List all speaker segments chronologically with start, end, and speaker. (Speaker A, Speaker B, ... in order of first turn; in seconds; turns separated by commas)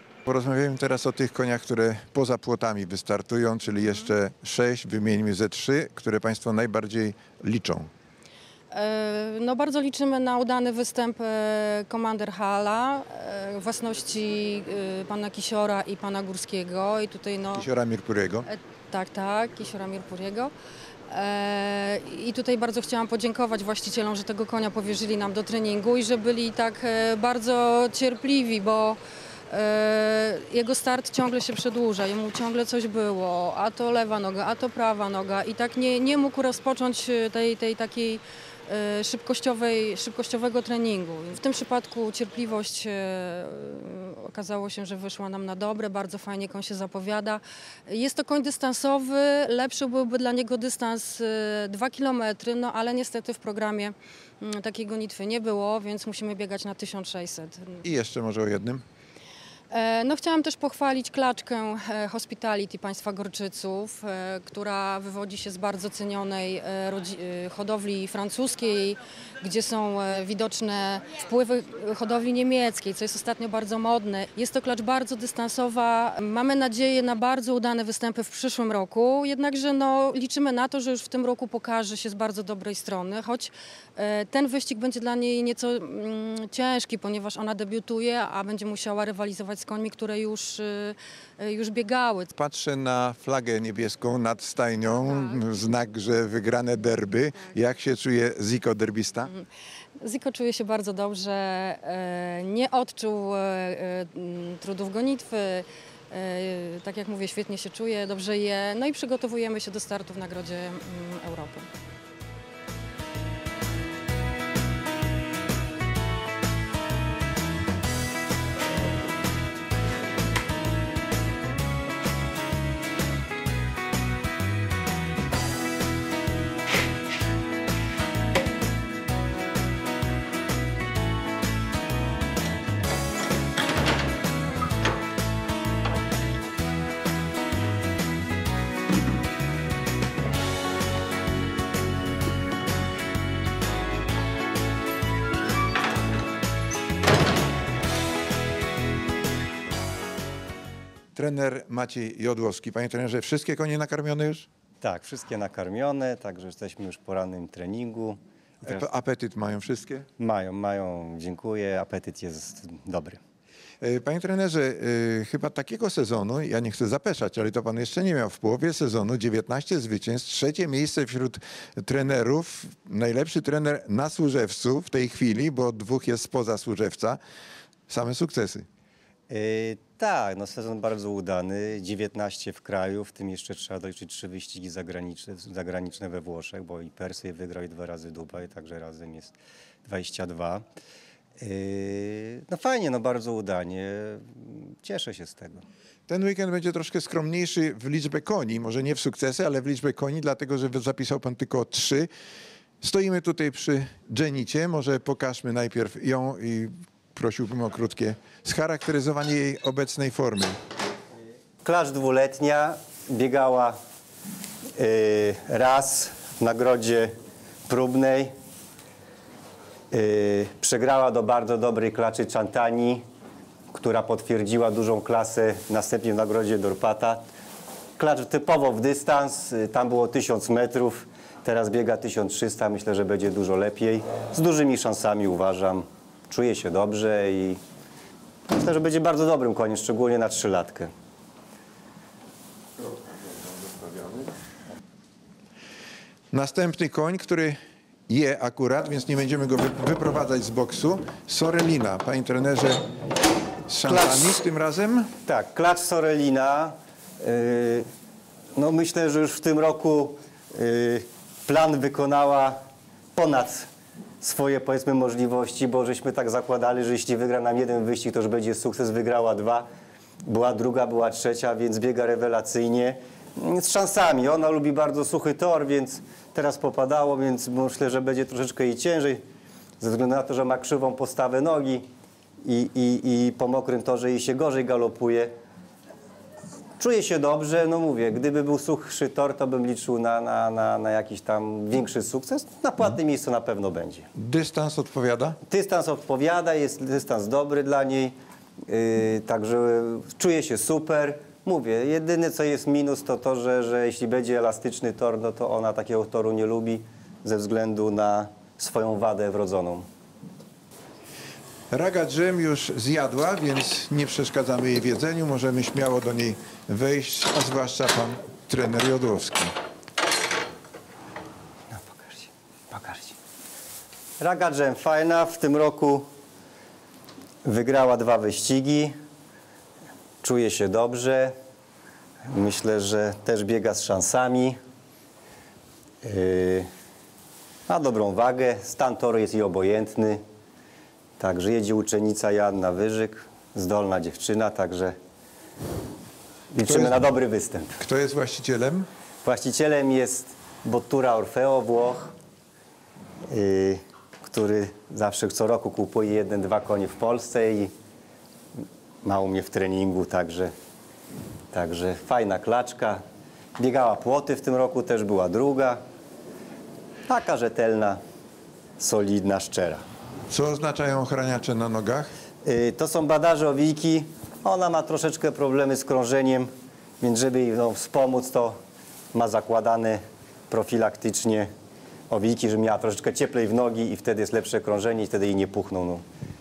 Speaker A: 0.3-7.9, Speaker B: 8.7-17.7, Speaker A: 17.5-18.5, Speaker B: 18.4-20.5, Speaker B: 21.1-57.8, Speaker A: 57.8-58.8, Speaker B: 59.7-92.3, Speaker A: 92.3-99.3, Speaker B: 100.0-111.7, Speaker A: 151.1-154.5, Speaker C: 154.8-158.8, Speaker A: 158.6-160.1, Speaker C: 160.2-163.2, Speaker A: 163.8-177.2, Speaker A: 177.9-178.7, Speaker C: 179.3-189.3, Speaker C: 189.8-190.6, Speaker C: 191.4-195.6, Speaker A: 196.1-202.1, Speaker A: 202.8-210.6, Speaker C: 211.6-213.8, Speaker C: 214.8-217.1, Speaker C: 217.7-218.3, Speaker C: 219.9-223.0, Speaker C: 223.7-227.2, Speaker C: 228.0-237.6, Speaker C: 238.5-240.9, Speaker A: 246.3-247.6, Speaker A: 248.1-252.8, Speaker A: 253.7-255.1, Speaker C: 253.8-254.4, Speaker C: 255.2-257.8, Speaker C: 258.6-262.6, Speaker C: 263.1-263.7, Speaker C: 264.2-269.6, Speaker C: 270.2-279.2, Speaker C: 279.8-281.8, Speaker C: 282.4-285.3, Speaker C: 286.8-294.1, Speaker A: 294.1-295.4, Speaker C: 295.5-298.1, Speaker C: 298.7-309.9, Speaker A: 311.7-319.5, Speaker C: 321.7-323.1, Speaker C: 324.2-326.1, Speaker C: 327.4-328.9, Speaker C: 330.2-331.3, Speaker C: 332.3-334.6, Speaker C: 336.0-336.7, Speaker C: 337.7-340.2, Speaker C: 341.2-344.9, Speaker C: 346.5-347.7, Speaker A: 346.6-347.0, Speaker A: 347.8-348.9, Speaker C: 349.2-352.1, Speaker C: 353.3-357.7, Speaker C: 359.0-360.5, Speaker C: 361.5-363.0, Speaker C: 363.6-365.8, Speaker C: 367.1-368.0, Speaker C: 368.8-369.8, Speaker A: 370.3-372.1, Speaker C: 372.4-376.5, Speaker C: 377.0-378.6, Speaker C: 379.1-381.5, Speaker C: 382.1-386.0